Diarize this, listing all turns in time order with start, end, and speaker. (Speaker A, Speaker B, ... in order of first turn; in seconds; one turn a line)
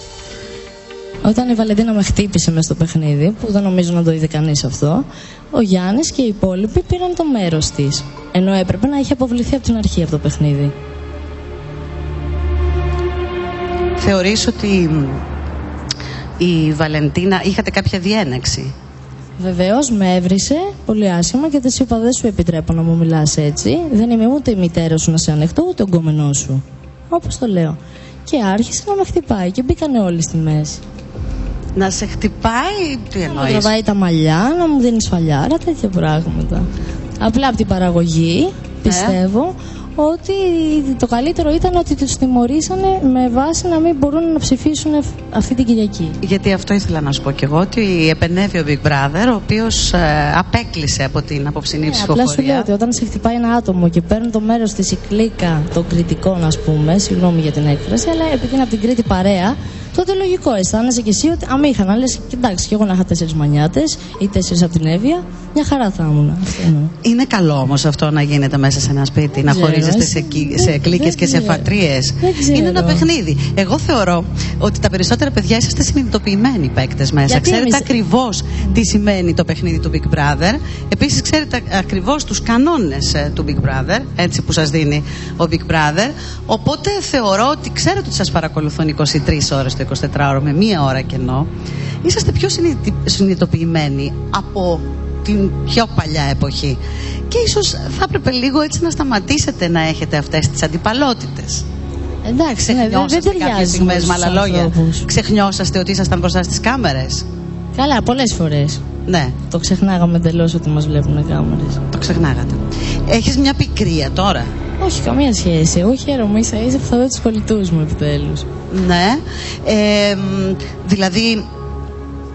Speaker A: 1.2-10.7
Speaker B: 14.0-15.2
Speaker B: 16.4-18.7
Speaker A: 19.4-30.8
Speaker B: 31.7-33.7
Speaker A: 33.2-36.7
Speaker A: 37.2-46.2
Speaker B: 38.8-39.2
Speaker B: 46.2-52.7
Speaker A: 51.8-66.9
Speaker B: 67.0-91.5
Speaker A: 69.4-73.1
Speaker A: 77.3-77.9
Speaker B: 92.0-96.8
Speaker B: 97.3-101.6
Speaker A: 102.2-105.1
Speaker B: 102.6-107.2
Speaker A: 107.7-108.8
Speaker B: 109.0-109.3
Speaker A: 109.5-111.8
Speaker B: 111.9-114.5
Speaker A: 114.8-118.5
Speaker B: 118.7-121.4